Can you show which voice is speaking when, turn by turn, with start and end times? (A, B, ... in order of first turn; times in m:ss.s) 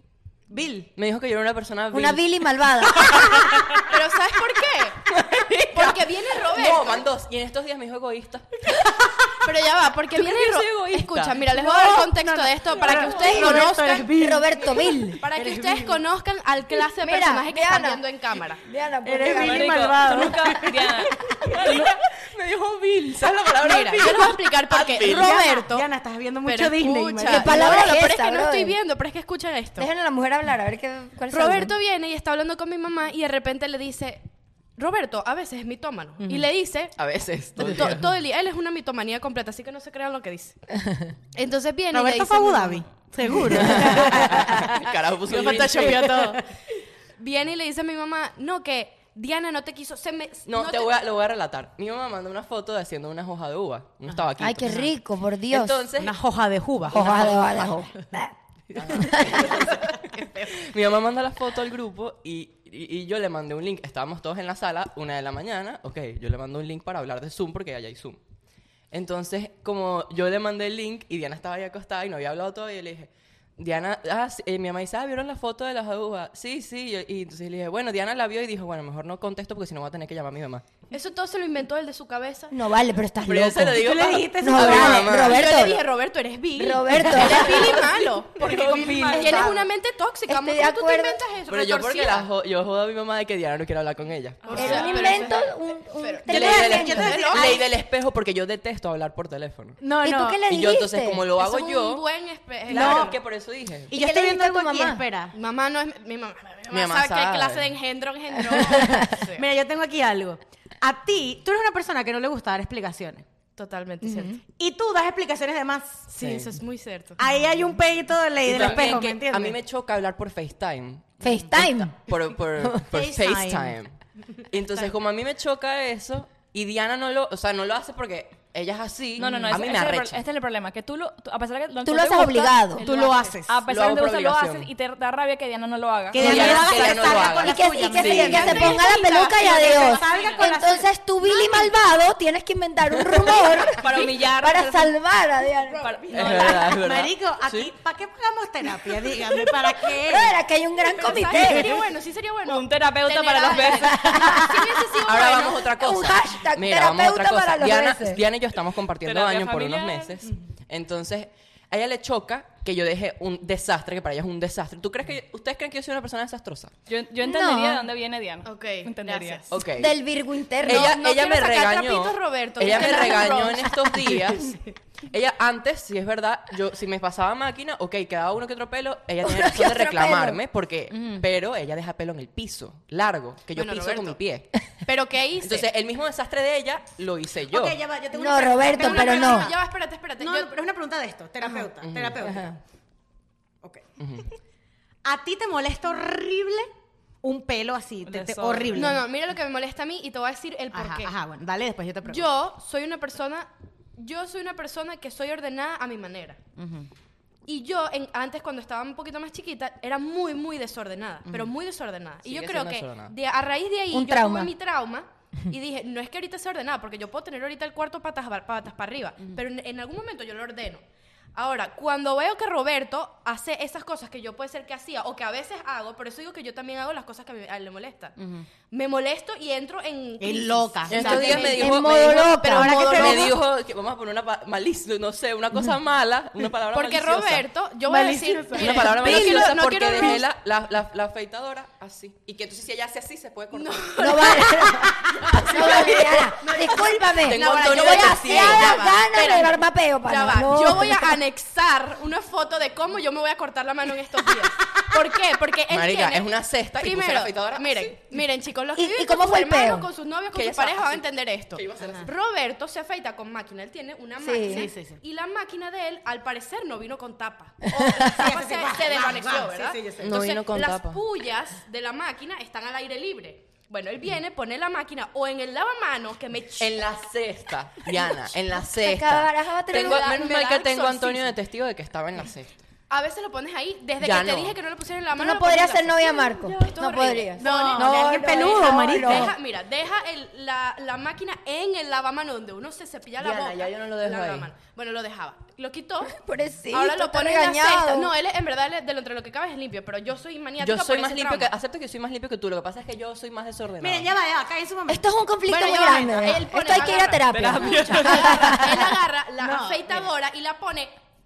0:00.5-0:00.9 A
0:00.9-0:02.2 B
0:01.9-0:03.7 C
0:03.0-0:03.9 B
0:03.8-0:05.1 D
0:05.0-0:08.8 B
0:05.7-0:07.0 D
0:09.4-0:14.1 D
0:10.2-0:11.4 B
0:11.5-0:16.0 A
0:12.9-0:15.2 C
0:15.2-0:18.6 D
0:17.0-0:18.0 C
0:18.6-0:20.2 C
0:19.0-0:21.7 A
0:19.3-0:21.9 E
0:21.4-0:25.3 B
0:23.6-0:25.9 D
0:24.7-0:27.9 A
0:26.4-0:29.9 D
0:27.2-0:28.8 C
0:29.8-0:31.7 C
0:31.3-0:34.2 D
0:34.8-0:37.0 D
0:36.2-0:36.5 A
0:37.0-0:38.1 B
0:37.6-0:40.7 D
0:41.3-0:44.7 D
0:41.9-0:46.4 A
0:43.5-0:46.3 B
0:45.3-0:46.4 D
0:47.2-0:51.0 D
0:50.4-0:54.9 B
0:54.4-0:55.9 C
0:55.5-0:56.2 B
0:56.0-0:57.8 A
0:56.9-0:58.3 C
0:58.7-1:08.2 B
0:58.9-0:59.9 A
0:58.9-0:59.5 C
1:08.9-1:20.6 B
1:20.9-1:22.6 D
1:22.5-1:25.8 C
1:23.2-1:25.6 B
1:23.8-1:25.2 A
1:25.1-1:32.3 D
1:26.6-1:27.8 C
1:27.1-1:27.8 A
1:27.2-1:29.6 B
1:28.5-1:29.6 A
1:28.8-1:29.2 E
1:29.2-1:29.5 C
1:30.3-1:31.2 C
1:31.5-1:35.2 B
1:34.4-1:37.6 D
1:34.5-1:35.0 E
1:34.5-1:37.2 C
1:36.3-1:39.8 B
1:36.3-1:37.7 A
1:39.8-1:40.4 A
1:40.0-1:41.3 C
1:40.4-1:42.0 B
1:41.4-1:43.2 D
1:42.7-1:43.9 B
1:42.7-1:43.2 A
1:43.9-1:45.3 A
1:43.9-1:45.0 C
1:45.3-1:49.4 D
1:46.7-1:47.7 B
1:48.6-1:49.1 C
1:48.7-1:53.2 A
1:53.6-1:54.4 D
1:54.0-1:54.4 C
1:54.6-1:56.1 A
1:56.1-1:57.2 D
1:56.2-1:56.5 B
1:57.2-1:59.6 A
1:58.4-2:03.9 B
2:01.2-2:02.0 C
2:02.9-2:03.8 A
2:04.5-2:10.2 B
2:09.2-2:16.7 E
2:11.8-2:12.8 C
2:12.8-2:13.4 D
2:12.8-2:13.6 A
2:13.6-2:14.7 B
2:16.1-2:20.9 A
2:16.1-2:18.8 B
2:16.2-2:25.9 C
2:17.9-2:20.5 D
2:23.7-2:24.9 E
2:25.7-2:26.5 D
2:25.8-2:26.8 E
2:26.1-2:27.7 B
2:26.7-2:30.4 A
2:29.9-2:31.8 C
2:31.0-2:35.7 D
2:32.4-2:34.2 E
2:33.8-2:34.8 C
2:35.0-2:46.7 B
2:35.6-2:38.2 C
2:39.0-2:40.1 E
2:46.9-2:49.5 E
2:47.2-2:47.8 C
2:48.4-2:49.6 D
2:49.5-2:49.9 B
2:49.8-2:51.0 C
2:50.6-3:04.5 B
2:50.6-2:54.4 D
2:59.2-3:00.4 C
3:00.9-3:01.2 A
3:03.5-3:04.2 D
3:04.8-3:05.7 D
3:05.4-3:07.8 B
3:07.5-3:09.6 A
3:08.1-3:09.5 C
3:08.7-3:10.5 D
3:10.2-3:12.6 A
3:11.8-3:12.4 B
3:13.6-3:13.9 A
3:14.0-3:14.3 B
3:15.0-3:16.7 A
3:17.2-3:19.0 A
3:18.0-3:19.0 E
3:18.7-3:21.1 D
3:20.7-3:22.3 A
3:22.0-3:26.4 D
3:26.6-3:26.9 A
3:27.5-3:40.8 D
3:32.2-3:33.1 B
3:33.9-3:34.5 C
3:41.3-3:48.2 D
3:48.2-3:48.5 A
3:48.7-3:53.3 D
3:50.2-3:51.5 A
3:50.9-3:57.4 B
3:51.0-3:53.3 C
3:52.4-3:53.4 A
3:56.7-4:00.2 D
3:57.9-3:58.9 A
3:58.5-4:04.1 B
3:59.0-3:59.4 C
4:03.5-4:16.3 D
4:04.0-4:11.2 C
4:05.2-4:06.0 B
4:06.4-4:06.9 A
4:07.1-4:08.8 B
4:15.7-4:18.0 B
4:16.8-4:36.8 D
4:18.8-4:19.9 C
4:20.3-4:21.0 B
4:21.5-4:22.1 B
4:21.8-4:22.1 A
4:24.2-4:24.7 C
4:24.4-4:25.0 A
4:27.8-4:28.0 C
4:28.0-4:30.2 A
4:30.0-4:31.0 B
4:36.6-4:42.6 B
4:38.6-4:40.2 C
4:39.7-4:41.3 D
4:42.9-4:56.2 D
4:44.0-4:44.6 B
4:45.2-4:49.3 C
4:47.4-4:49.3 A
4:53.2-4:54.5 B
4:56.0-4:58.1 C
4:56.7-5:01.5 D
5:00.6-5:04.1 B
5:03.8-5:05.1 A
5:04.9-5:08.9 C
5:05.5-5:10.9 D
5:05.7-5:06.3 A
5:07.3-5:08.6 B
5:07.3-5:08.4 E
5:09.4-5:10.1 A